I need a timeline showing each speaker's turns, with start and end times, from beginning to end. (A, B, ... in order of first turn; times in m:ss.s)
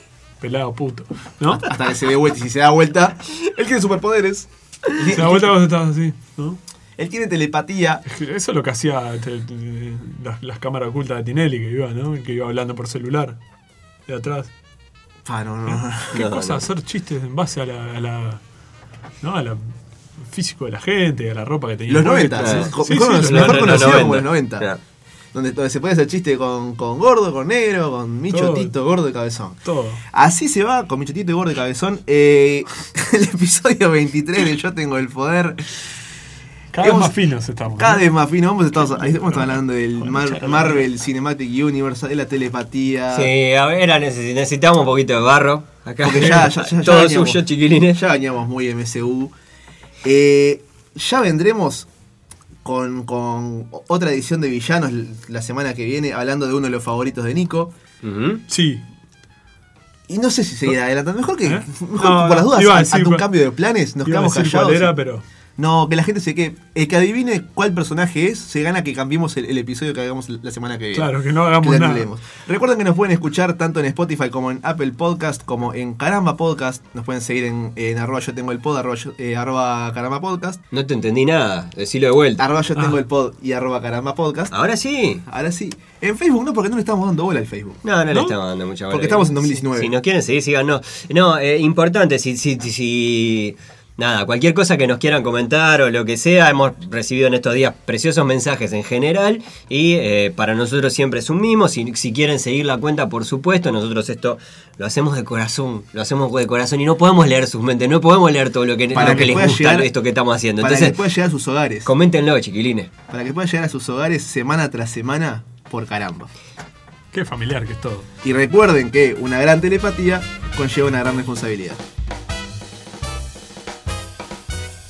0:00.4-0:01.7 A
0:01.6-0:05.6 B
0:05.1-0:06.6 A
0:07.0-0:08.0 B
0:08.0-0:13.4 A
0:14.1-0:14.5 A
0:15.2-0:16.2 B
0:15.7-0:18.4 A
0:16.1-0:16.6 C
0:19.2-0:19.6 A
0:20.2-0:24.2 A
0:21.9-0:24.7 B
0:22.4-0:24.8 C
0:25.3-0:35.8 B
0:28.3-0:28.7 A
0:29.6-0:30.0 A
0:36.7-0:38.0 A
0:36.8-0:37.2 B
0:37.8-0:43.3 B
0:39.2-0:40.8 A
0:43.1-0:48.0 C
0:46.0-0:49.3 B
0:50.0-0:51.9 B
0:52.6-0:57.7 B
0:58.0-0:58.4 C
0:58.5-0:58.8 A
1:00.1-1:04.9 B
1:01.4-1:03.3 A
1:04.0-1:05.2 A
1:05.6-1:20.6 B
1:10.9-1:12.1 A
1:20.7-1:22.4 C
1:22.4-1:24.5 B
1:24.5-1:25.2 C
1:25.2-1:27.8 B
1:27.8-1:51.0 C
1:28.9-1:29.9 B
1:48.9-1:49.9 B
1:50.6-1:51.9 B
1:51.8-1:52.9 C
1:53.1-1:56.3 B
1:57.1-1:58.1 A
1:58.2-2:01.8 B